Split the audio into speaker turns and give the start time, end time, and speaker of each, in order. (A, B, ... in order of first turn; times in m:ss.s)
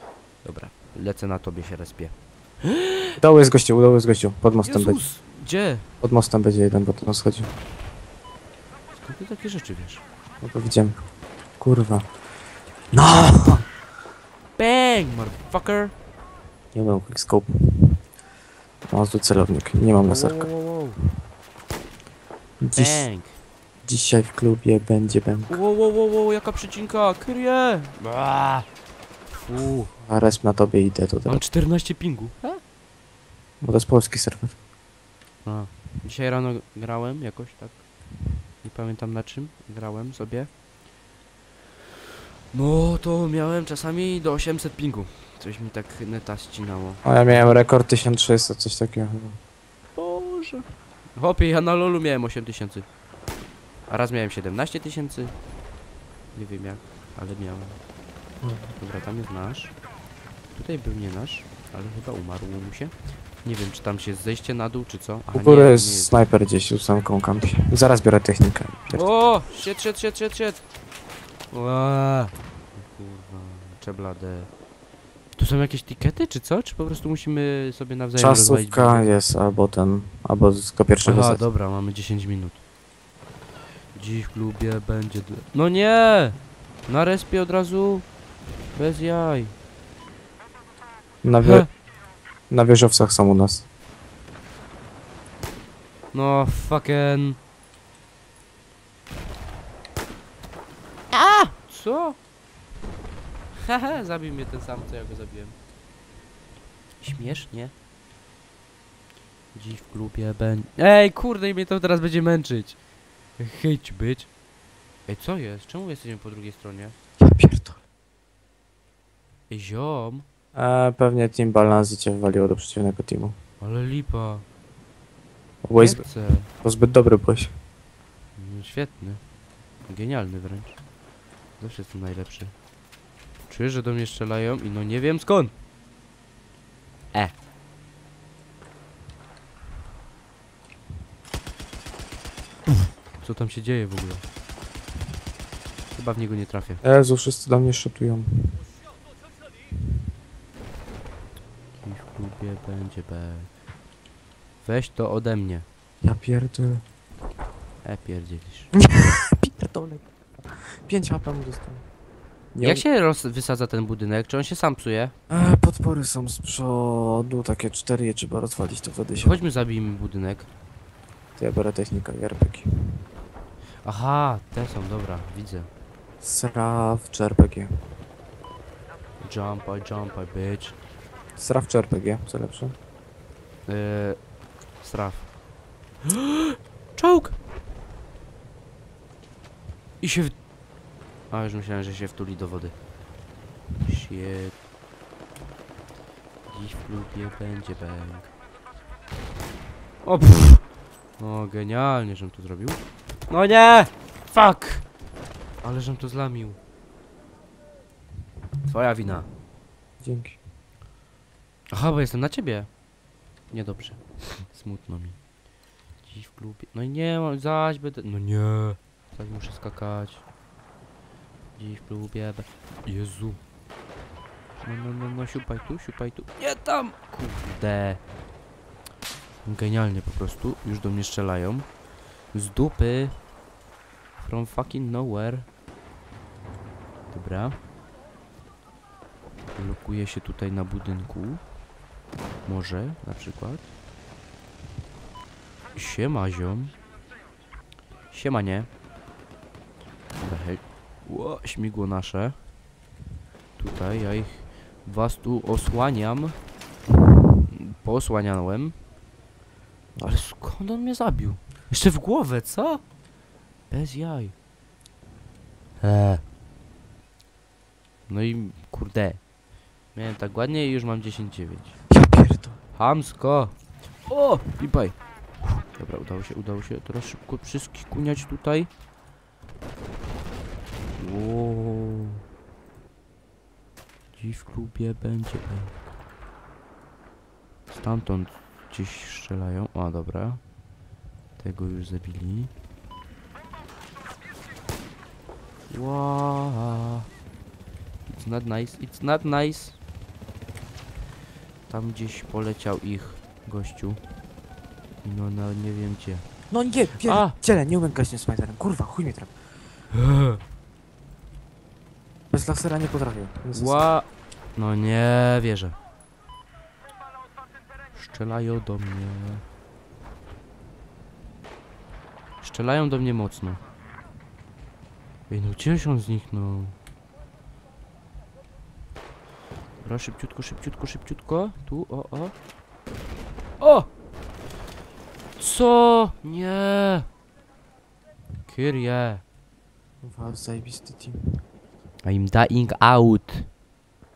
0:00.4-0:03.2 A
0:03.2-0:05.0 B
0:04.6-0:05.8 A
0:06.0-0:07.5 B
0:08.9-0:10.0 A
0:10.4-0:11.0 B
0:11.6-0:12.0 B
0:12.9-0:13.7 B
0:14.6-0:15.9 A
0:16.7-0:18.0 B
0:18.9-0:20.5 B
0:20.0-0:21.0 A
0:22.6-0:23.1 B
0:22.7-0:23.4 A
0:23.8-0:25.6 B
0:25.5-0:28.6 A
0:29.4-0:29.9 A
0:30.0-0:31.4 B
0:31.2-0:32.6 A
0:33.6-0:34.5 B
0:35.4-0:37.8 A
0:38.6-0:40.5 A
0:42.5-0:47.6 A
0:47.0-0:49.4 B
0:49.9-0:52.8 A
0:53.9-0:55.3 A
0:56.3-0:57.8 A
0:58.4-0:58.7 B
0:58.8-0:59.7 A
1:00.5-1:06.2 A
1:05.3-1:09.0 B
1:08.9-1:10.6 A
1:11.5-1:14.5 A
1:15.4-1:19.1 A
1:18.2-1:21.4 B
1:21.0-1:22.6 A
1:23.9-1:28.0 A
1:28.7-1:29.5 A
1:31.2-1:31.7 B
1:31.4-1:31.7 A
1:32.5-1:33.6 B
1:36.1-1:37.4 A
1:41.1-1:42.2 A
1:43.6-1:45.5 A
1:47.0-1:47.7 A
1:49.5-1:52.8 A
1:53.4-1:54.3 A
1:55.0-1:57.0 A
1:57.2-1:57.8 B
1:59.5-2:00.2 A
2:00.5-2:03.3 B
2:03.6-2:04.4 A
2:05.6-2:07.5 B
2:05.8-2:06.5 A
2:08.4-2:09.2 A
2:09.9-2:10.8 A
2:11.6-2:12.5 A
2:13.5-2:15.5 A
2:23.2-2:24.2 A
2:25.9-2:26.8 A
2:26.8-2:28.6 B
2:31.8-2:33.5 A
2:34.6-2:35.6 A
2:36.0-2:36.8 B
2:37.8-2:38.7 A
2:38.8-2:40.0 B
2:40.6-2:41.8 B
2:42.5-2:42.8 B
2:42.6-2:45.1 A
2:45.3-2:49.4 B
2:49.1-2:50.5 A
2:51.4-2:53.0 B
2:53.8-2:55.7 A
2:56.2-2:57.7 B
2:59.2-3:00.8 A
3:01.4-3:02.7 B
3:03.7-3:04.2 A
3:04.8-3:05.3 A
3:06.0-3:07.4 A
3:10.0-3:10.4 A
3:11.3-3:12.8 A
3:13.8-3:14.5 A
3:16.5-3:18.3 A
3:20.0-3:20.6 A
3:21.2-3:24.9 A
3:25.6-3:26.6 A
3:28.6-3:29.3 A
3:30.0-3:30.4 B
3:31.7-3:32.7 A
3:33.5-3:35.2 A
3:36.0-3:40.2 A
3:41.6-3:43.4 A
3:44.6-3:48.0 A
3:49.4-3:51.7 A
3:52.3-3:53.2 A
3:54.2-3:55.5 A
3:57.1-3:57.6 A
3:59.5-4:01.4 A
4:02.4-4:03.7 A
4:05.7-4:06.8 A
4:08.1-4:08.7 A
4:10.2-4:12.4 A
4:13.6-4:16.4 A
4:17.5-4:18.8 A
4:20.0-4:22.8 A
4:23.7-4:24.3 A
4:25.8-4:26.2 A
4:28.1-4:29.2 A
4:29.9-4:31.8 A
4:31.9-4:32.6 B
4:32.7-4:35.0 A
4:35.6-4:38.7 A
4:41.0-4:42.2 A
4:44.1-4:45.8 A
4:47.7-4:50.4 A
4:51.4-4:52.5 A
4:55.7-4:57.1 A
4:58.1-4:59.8 A
5:01.7-5:04.0 A
5:05.0-5:06.2 A
5:06.5-5:09.3 B
5:07.0-5:07.4 A
5:09.9-5:10.4 A
5:12.3-5:13.9 B
5:13.5-5:15.8 A
5:17.9-5:19.4 A
5:22.4-5:23.6 A
5:25.3-5:26.7 A
5:29.8-5:32.3 A
5:33.6-5:33.9 A
5:35.4-5:37.1 A
5:38.4-5:39.2 A
5:40.0-5:41.4 B
5:42.0-5:43.5 A